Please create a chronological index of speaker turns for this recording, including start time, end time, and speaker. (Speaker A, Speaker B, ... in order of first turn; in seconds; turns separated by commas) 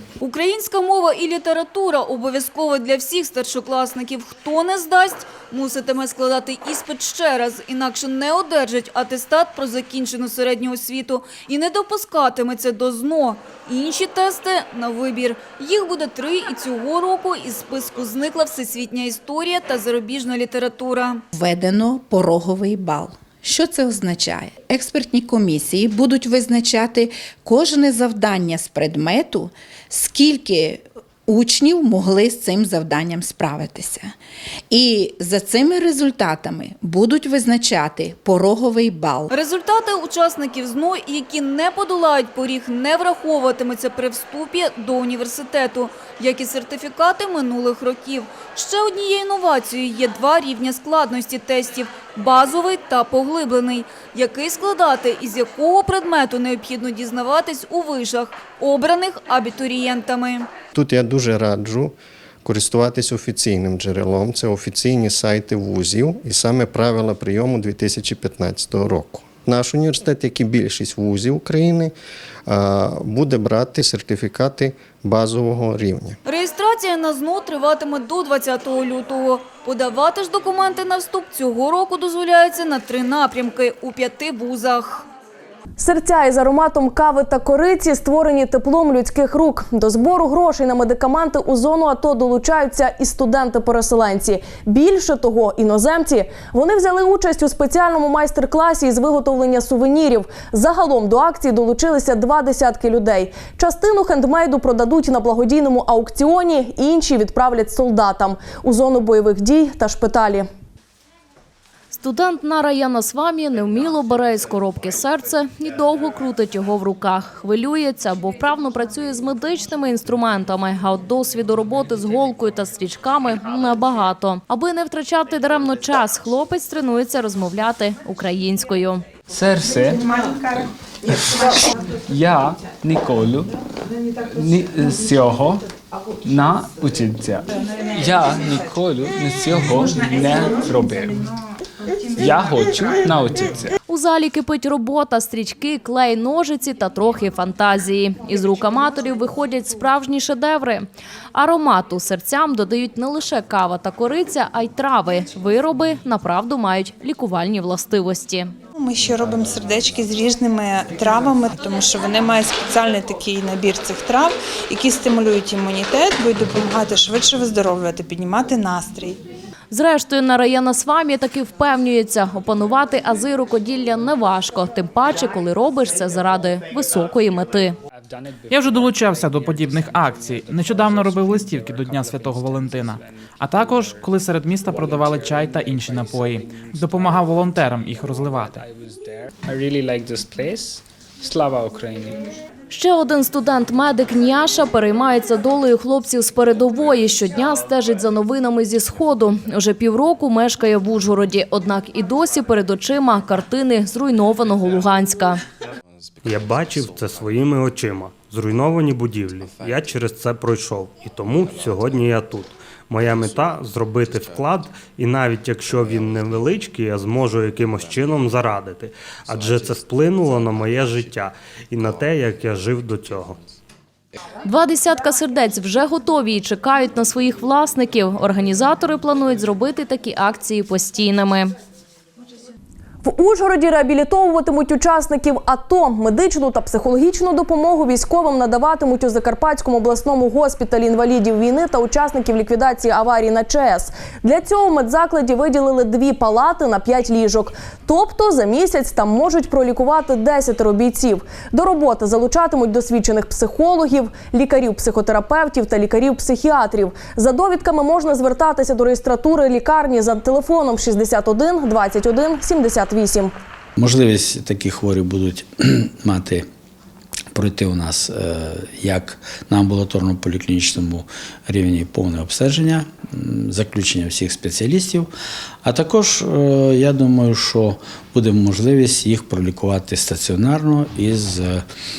Speaker A: 0.2-21.2, Speaker B: 21.3-34.1, Speaker B: 34.7-39.3, Speaker A: 39.3-60.5, Speaker C: 60.7-71.9, Speaker C: 72.5-76.2, Speaker A: 76.2-85.0, Speaker D: 85.8-110.5, Speaker E: 111.9-129.1, Speaker F: 129.3-129.9, Speaker F: 132.2-133.4, Speaker F: 134.8-135.6, Speaker F: 138.0-141.0, Speaker F: 142.2-143.4, Speaker E: 143.9-158.5, Speaker G: 158.7-169.2, Speaker E: 169.7-177.8, Speaker H: 178.5-188.6, Speaker F: 189.5-192.1, Speaker E: 192.7-205.4, Speaker I: 206.2-223.4, Speaker E: 224.4-231.5, Speaker D: 233.0-263.3, Speaker J: 263.8-266.4, Speaker J: 267.3-275.1, Speaker J: 275.6-281.6